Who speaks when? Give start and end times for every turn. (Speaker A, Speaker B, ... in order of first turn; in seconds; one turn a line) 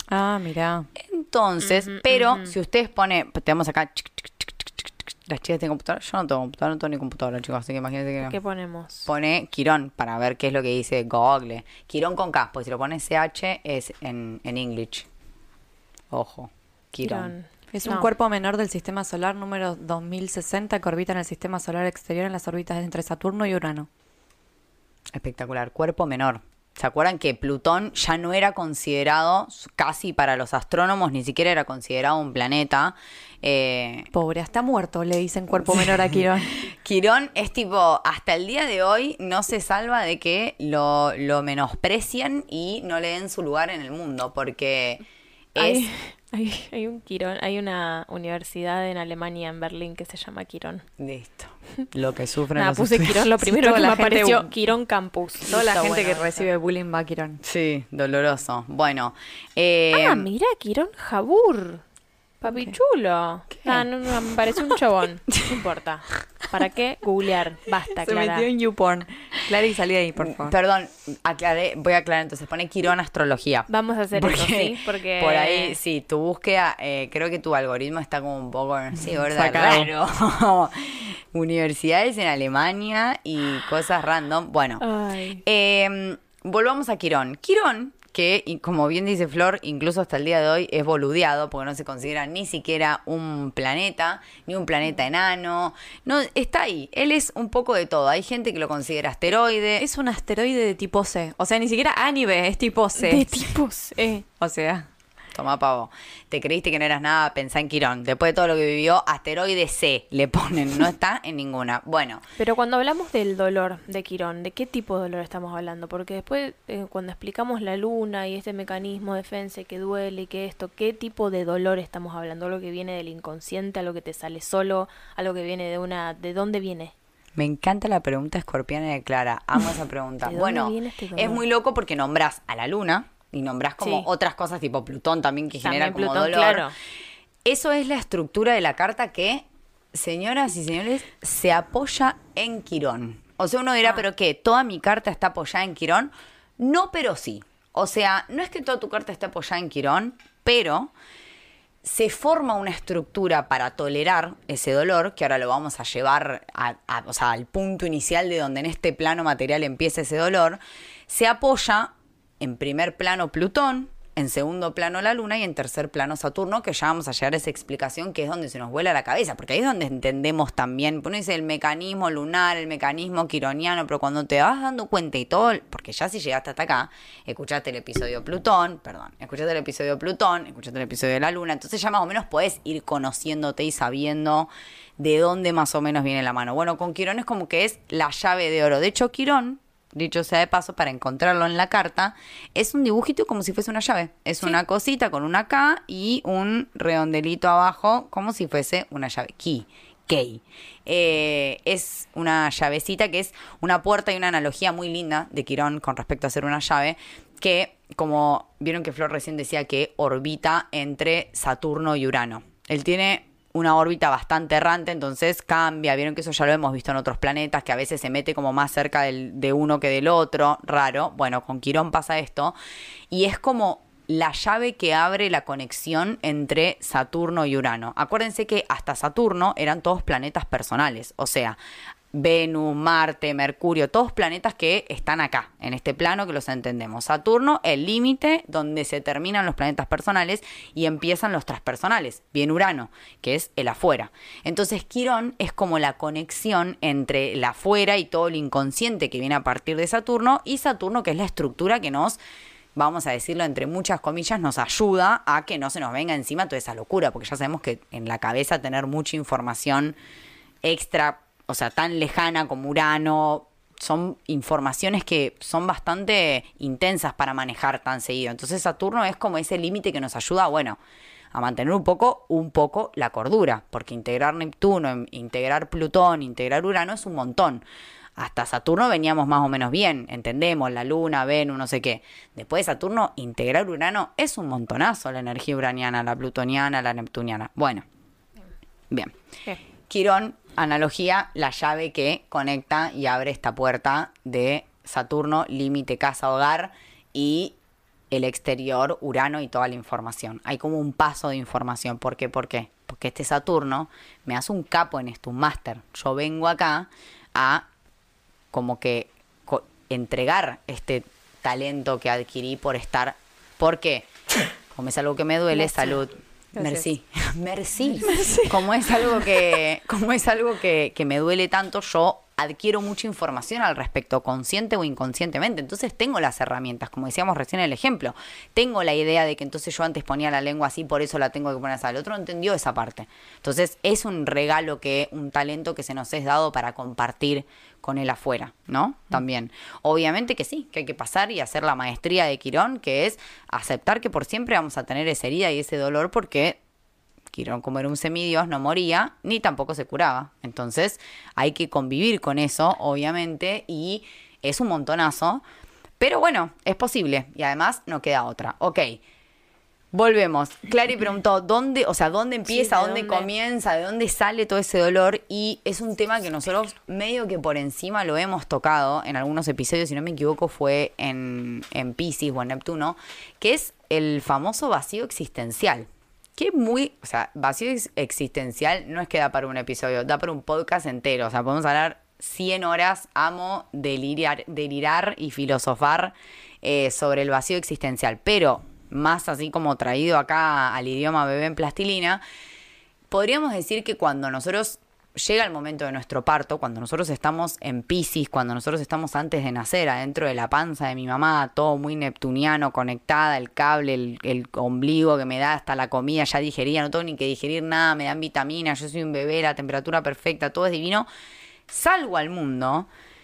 Speaker A: 0.1-0.9
Speaker B: 0.9-8.3
Speaker C: 1.6-2.5
Speaker C: 8.2-9.1
Speaker B: 9.1-15.1
Speaker B: 16.1-17.3
Speaker C: 17.0-18.1
Speaker A: 17.7-23.9
Speaker B: 25.1-34.1
Speaker A: 34.1-36.6
Speaker B: 36.6-45.0
Speaker B: 45.5-45.9
Speaker C: 45.6-50.8
Speaker B: 51.0-53.3
Speaker C: 52.5-56.5
Speaker A: 53.4-54.5
Speaker A: 55.4-57.4
Speaker B: 57.4-60.3
Speaker C: 59.9-61.8
Speaker C: 62.4-68.5
Speaker B: 63.5-63.9
Speaker A: 68.0-70.5
Speaker B: 70.2-84.8
Speaker C: 73.7-75.8
Speaker A: 79.3-79.9
Speaker C: 84.8-85.4
Speaker B: 85.4-99.8
Speaker A: 99.8-103.5
Speaker C: 103.0-104.2
Speaker A: 104.2-104.9
Speaker B: 105.3-112.2
Speaker C: 112.4-126.9
Speaker B: 127.3-136.7
Speaker C: 130.2-131.4
Speaker C: 133.8-134.1
Speaker C: 135.6-136.7
Speaker B: 137.4-150.9
Speaker B: 151.8-222.5
Speaker B: 223.1-231.6
Speaker B: 232.1-252.2
Speaker B: 252.7-259.9
Speaker B: 260.6-270.8
Speaker B: 271.3-277.6
Speaker B: 278.2-287.8
Speaker B: 289.9-297.5
Speaker B: 298.1-307.6
Speaker B: 308.5-314.1
Speaker B: 314.7-346.6
Speaker C: 315.6-316.0
Speaker C: 316.6-316.9
Speaker A: 318.0-318.5
Speaker B: 347.3-355.4
Speaker B: 356.0-359.0
Speaker B: 359.9-392.2
Speaker C: 362.5-363.3
Speaker B: 393.1-411.1
Speaker B: 411.7-412.9